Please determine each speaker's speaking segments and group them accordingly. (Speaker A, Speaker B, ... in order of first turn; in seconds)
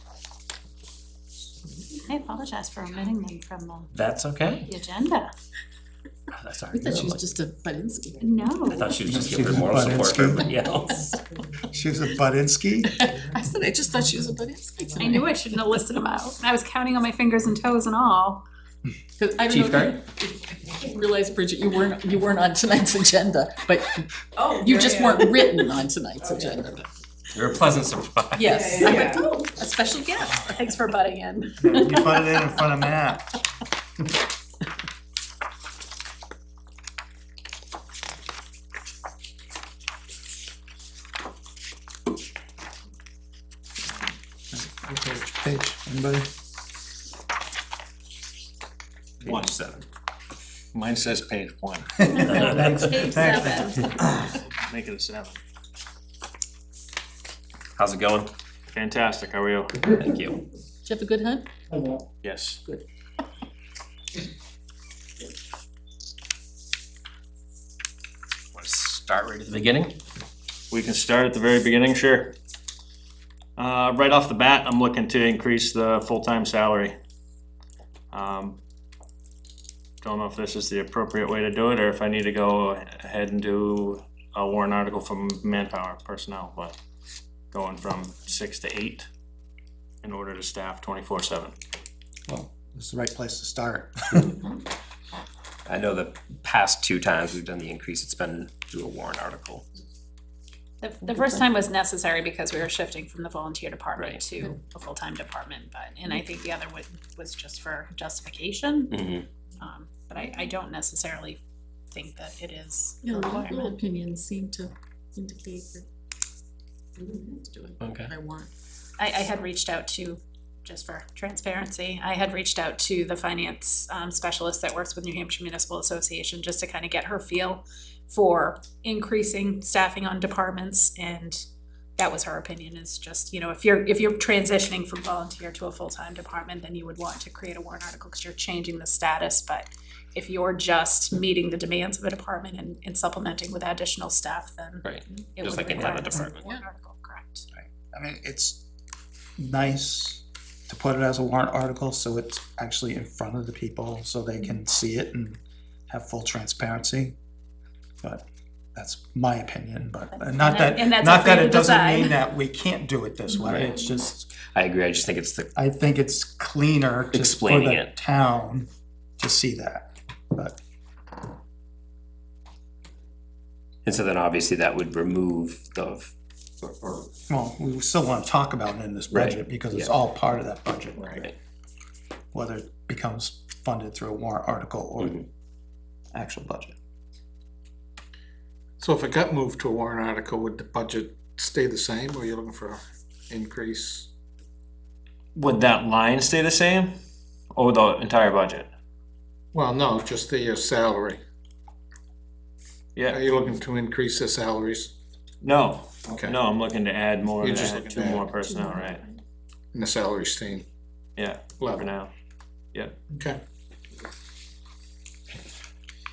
Speaker A: 2.0-3.9, 4.7-5.3, 8.2-8.9, 15.0-18.4, 28.8-32.5, 52.1-54.0, 100.8-109.1, 109.6-111.4, 111.9-113.8, 119.0-131.4, 132.0-147.5, 160.1-162.2
Speaker B: 3.9-4.7, 6.3-7.2, 8.7-11.0, 19.5-20.0, 27.3-28.6, 49.2-49.9, 57.8-58.3, 60.0-60.4, 68.5-70.0, 95.7-99.7, 104.0-104.5, 108.9-109.3, 117.8-118.1, 144.8-146.6, 163.4-163.8, 164.5-165.5, 167.1-167.9, 173.8-177.1, 179.1-179.9, 185.0-185.2
Speaker C: 6.7-8.2, 12.9-15.3, 19.2-26.9, 28.3-29.8, 60.8-61.5, 113.0-115.9, 117.0-118.5, 146.3-146.7, 208.6-208.9
Speaker D: 9.1-10.5, 11.7-13.0, 31.6-33.3, 44.5-46.3, 52.0-53.9, 92.3-94.5, 147.5-148.6, 149.4-157.2, 158.0-164.3, 165.6-168.7, 169.2-170.6, 177.3-181.2, 182.3-185.2, 186.1-186.8
Speaker E: 49.2-49.6, 50.7-52.5, 54.4-55.4, 58.7-59.9, 62.2-62.6, 70.7-72.3, 73.6-76.9, 78.1-78.6, 80.0-86.8, 87.5-89.1, 90.0-91.5, 195.3-196.9, 197.6-198.7, 203.0-203.2, 205.4-209.1, 211.2-212.1
Speaker F: 181.0-181.2, 188.8-194.1, 199.5-201.2, 203.1-204.9, 206.1-206.4, 207.4-208.3, 209.7-210.7, 211.6-211.9, 213.1-213.4